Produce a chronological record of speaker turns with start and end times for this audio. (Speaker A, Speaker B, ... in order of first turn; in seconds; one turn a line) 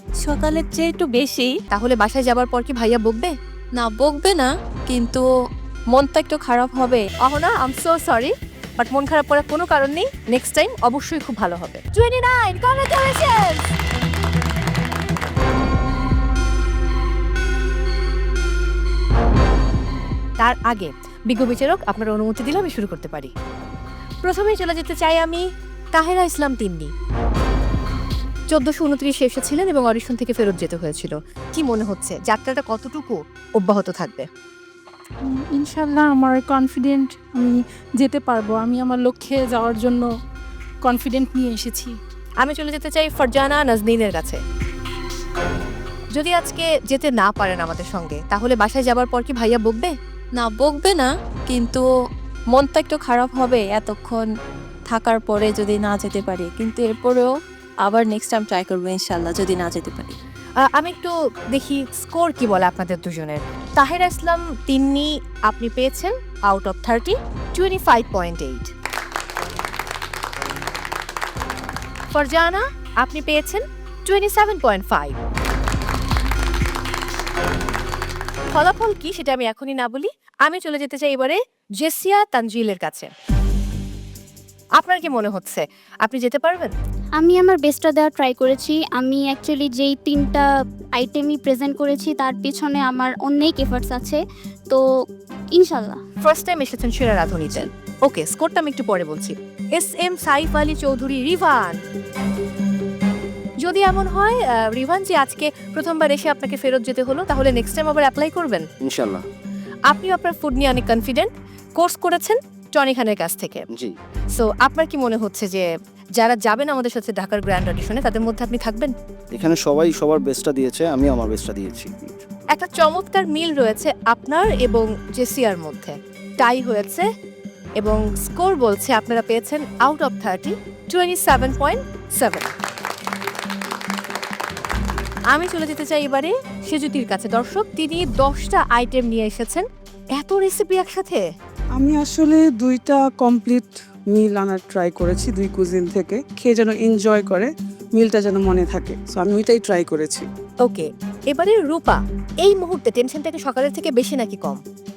Speaker A: 0.2-1.5
Speaker B: 1.7-3.3
Speaker A: 3.8-5.2
Speaker A: 5.9-7.1
Speaker B: 7.2-13.6
Speaker B: 20.4-23.3
Speaker B: 24.2-26.9
Speaker B: 28.5-34.3
Speaker C: 35.3-40.1
Speaker C: 40.8-42.0
Speaker B: 42.4-44.4
Speaker B: 46.1-49.9
Speaker A: 50.4-51.8
Speaker A: 52.5-54.3
Speaker A: 54.9-57.3
Speaker A: 57.8-60.2
Speaker B: 60.6-68.7
Speaker B: 72.1-75.2
Speaker B: 78.5-83.1
Speaker B: 84.8-86.7
Speaker D: 87.2-94.8
Speaker D: 95.5-96.0
Speaker B: 96.2-101.8
Speaker B: 103.6-108.7
Speaker E: 108.8-109.2
Speaker B: 109.9-113.7
Speaker B: 114.3-118.9
Speaker E: 119.3-122.1
Speaker B: 122.5-127.1
Speaker B: 127.8-132.5
Speaker B: 135.3-141.3
Speaker F: 141.8-150.3
Speaker B: 150.6-154.6